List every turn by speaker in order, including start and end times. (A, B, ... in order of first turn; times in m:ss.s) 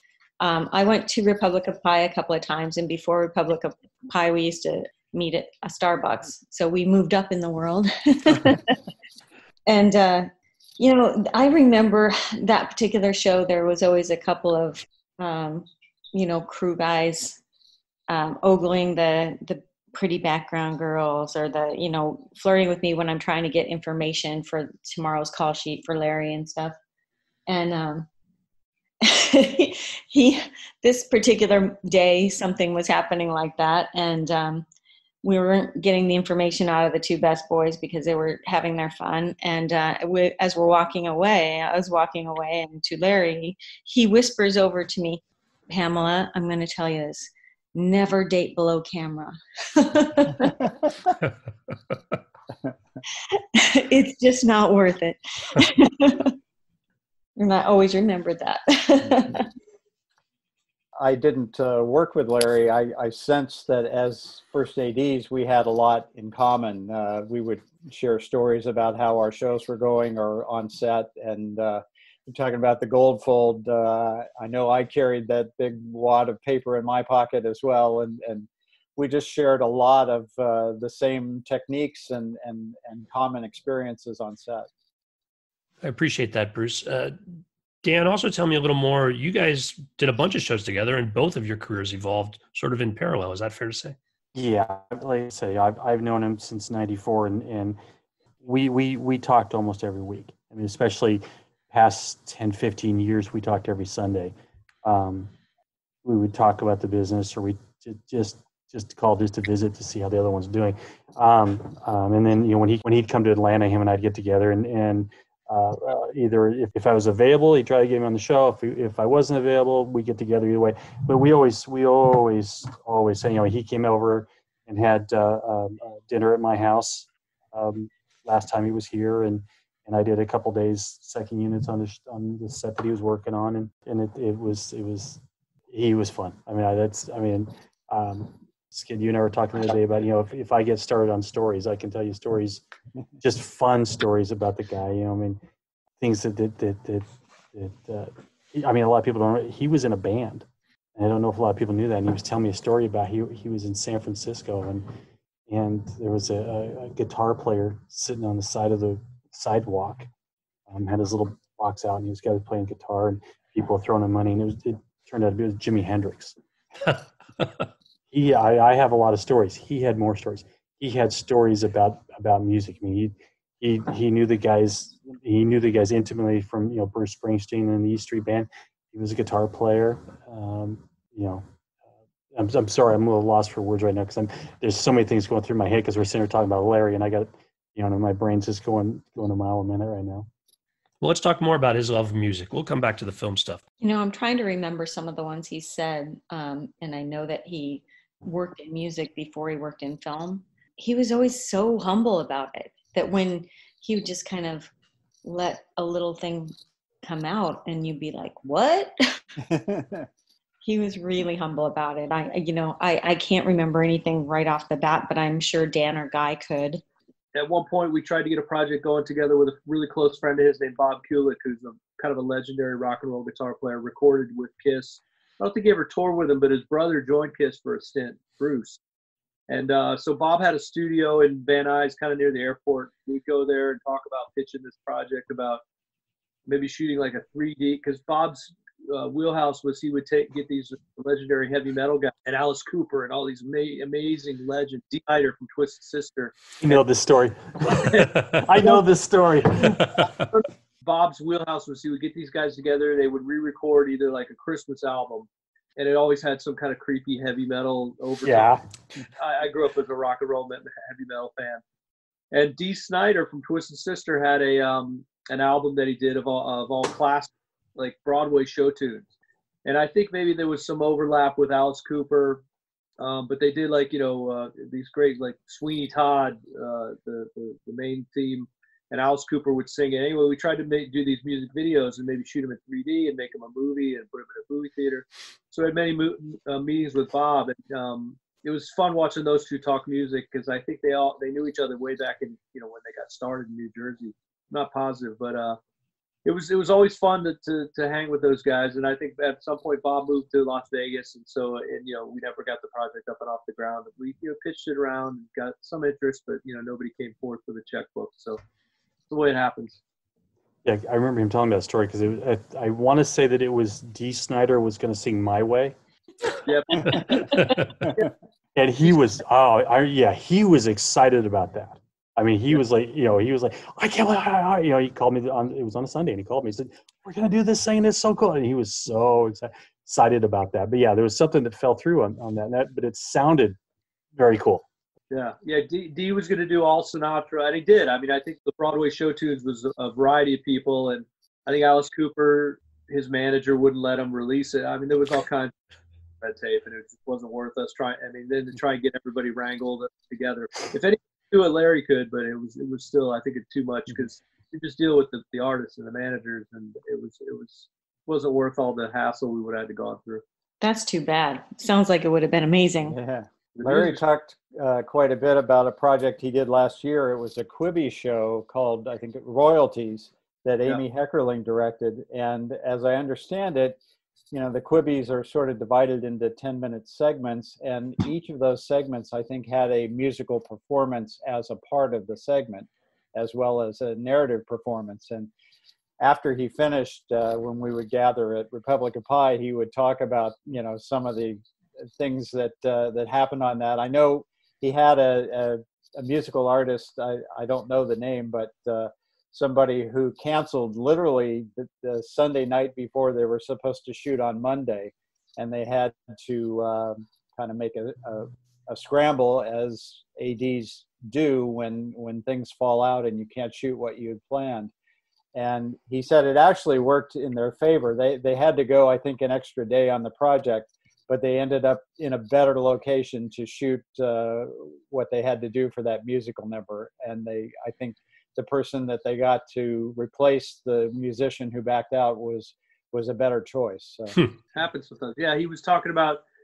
0:00.4-0:08.8 A
0:09.7-0:17.4 A
0:18.1-0:26.8 A
0:27.5-0:28.1 A
0:29.0-0:34.6 A
0:35.2-0:50.6 A
0:53.3-0:56.4 A
0:57.4-0:59.5 A
1:01.0-1:24.7 B
1:25.8-1:27.2 C
1:27.8-1:34.0 C
1:34.4-1:37.8 D
1:38.4-1:45.3 D
1:46.0-2:22.6 D
2:23.2-2:25.4 D
2:26.0-2:34.9 D
2:35.5-2:40.1 D
2:40.7-2:46.4 D
2:48.1-3:01.4 D
3:02.3-3:10.3 D
3:11.0-3:13.6 C
3:13.8-3:24.7 A
3:25.2-3:28.9 A
3:29.5-3:30.1 B
3:30.6-3:36.8 A
3:37.3-3:48.8 E
3:49.5-3:55.6 E
3:56.5-4:06.8 E
4:06.6-4:10.1 D
4:08.0-4:08.4 C
4:09.7-4:10.1 C
4:10.3-4:18.5 E
4:18.2-4:18.6 D
4:19.2-4:21.6 E
4:22.3-4:29.1 E
4:29.6-4:32.4 E
4:33.0-4:55.6 E
4:56.2-5:08.4 E
5:09.1-5:09.8 E
5:10.6-5:15.8 D
5:16.5-5:18.0 E
5:18.6-5:33.6 D
5:34.2-5:34.6 D
5:35.1-5:45.5 E
5:46.2-6:00.2 E
6:00.6-6:03.0 A
6:02.9-6:13.8 B
6:03.6-6:04.0 E
6:14.3-6:25.3 B
6:26.0-6:31.4 B
6:32.0-6:54.7 B
6:55.4-7:14.2 B
7:14.5-7:16.2 E